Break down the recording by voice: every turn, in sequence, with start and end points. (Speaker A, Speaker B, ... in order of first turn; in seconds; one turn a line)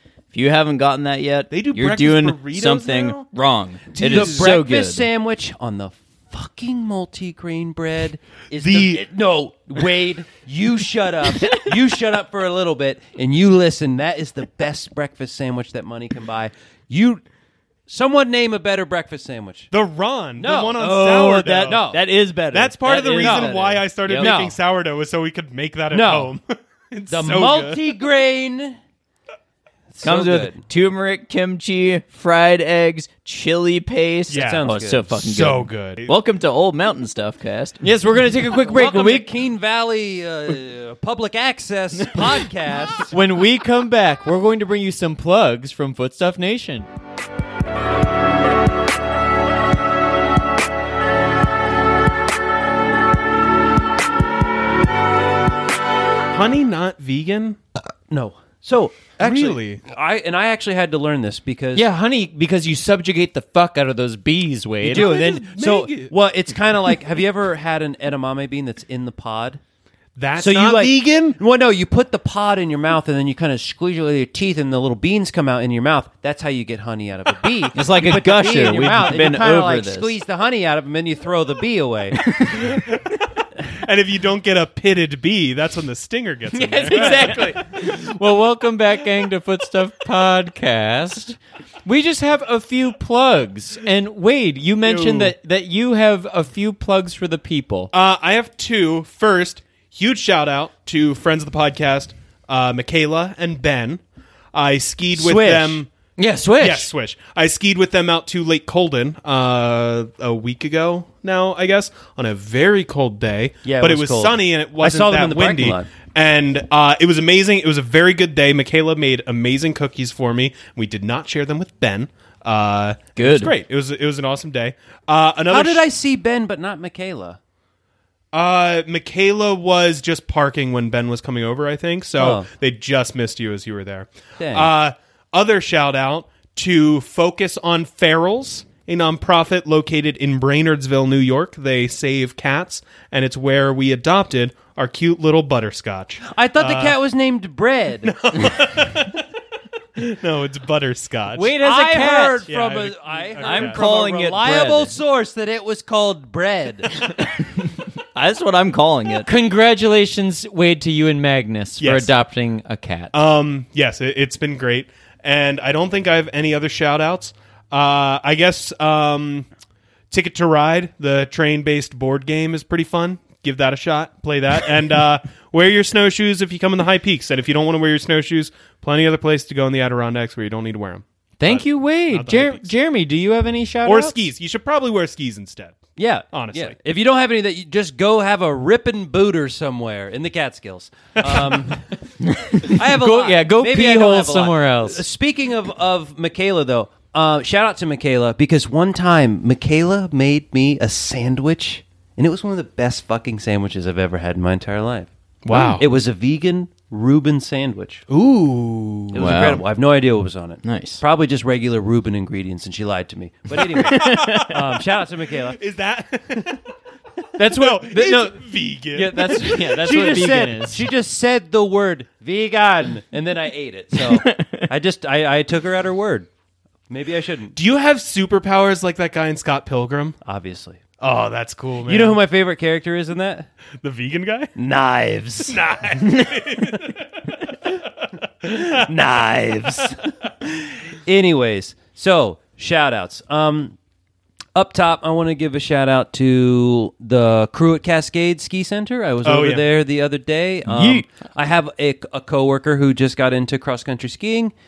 Speaker A: 0.3-5.0
Speaker B: 1.5-3.2
Speaker B: 3.9-4.5
Speaker C: 4.0-17.2
Speaker B: 8.6-9.0
Speaker C: 17.9-19.7
Speaker B: 19.7-21.8
Speaker C: 20.4-22.0
Speaker A: 20.8-24.3
Speaker B: 22.5-27.9
Speaker C: 23.2-23.6
Speaker C: 24.1-24.6
Speaker C: 25.9-26.3
Speaker C: 27.1-28.8
Speaker C: 29.9-30.6
Speaker A: 30.0-37.8
Speaker B: 34.3-36.1
Speaker C: 34.3-35.1
Speaker D: 37.8-39.3
Speaker C: 38.5-43.1
Speaker D: 43.1-46.9
Speaker B: 56.3-57.6
Speaker C: 58.1-61.8
Speaker B: 59.2-59.8
Speaker D: 61.7-65.1
Speaker B: 64.8-66.1
Speaker C: 64.9-69.6
Speaker B: 70.2-71.4
Speaker C: 70.4-82.2
Speaker A: 77.7-80.1
Speaker A: 82.3-82.6
Speaker B: 83.7-87.5
Speaker D: 86.5-97.9
Speaker B: 94.8-95.3
Speaker B: 97.9-104.0
Speaker B: 104.5-105.9
Speaker C: 105.1-105.8
Speaker D: 106.2-106.9
Speaker B: 106.6-125.8
Speaker C: 113.6-115.9
Speaker A: 123.2-123.5
Speaker C: 125.5-127.4
Speaker B: 128.3-146.9
Speaker C: 132.2-132.5
Speaker C: 134.4-134.7
Speaker C: 146.2-148.1
Speaker B: 148.1-149.2
Speaker B: 150.0-151.5
Speaker D: 151.3-152.4
Speaker C: 151.6-156.9
Speaker B: 152.5-153.8
Speaker A: 153.4-154.9
Speaker A: 158.1-159.3
Speaker D: 159.2-163.1
Speaker B: 161.8-162.1
Speaker B: 163.1-169.5
Speaker B: 170.1-182.7
Speaker D: 181.4-184.1
Speaker B: 183.8-186.8
Speaker C: 186.0-191.8
Speaker C: 192.6-208.0
Speaker D: 192.7-195.0
Speaker B: 205.4-205.8
Speaker B: 208.1-209.3
Speaker C: 209.1-215.6
Speaker A: 209.1-209.6
Speaker A: 210.6-211.0
Speaker A: 213.9-214.5
Speaker B: 215.5-216.6
Speaker D: 217.4-220.8
Speaker B: 217.5-219.4
Speaker C: 219.3-226.3
Speaker C: 226.9-227.5
Speaker B: 227.5-230.2
Speaker C: 230.2-230.8
Speaker B: 231.0-232.2
Speaker C: 231.8-233.5
Speaker B: 233.8-234.5
Speaker C: 234.6-235.6
Speaker B: 235.5-237.3
Speaker C: 238.5-243.8
Speaker C: 244.5-254.5
Speaker B: 249.2-249.7
Speaker D: 250.7-251.0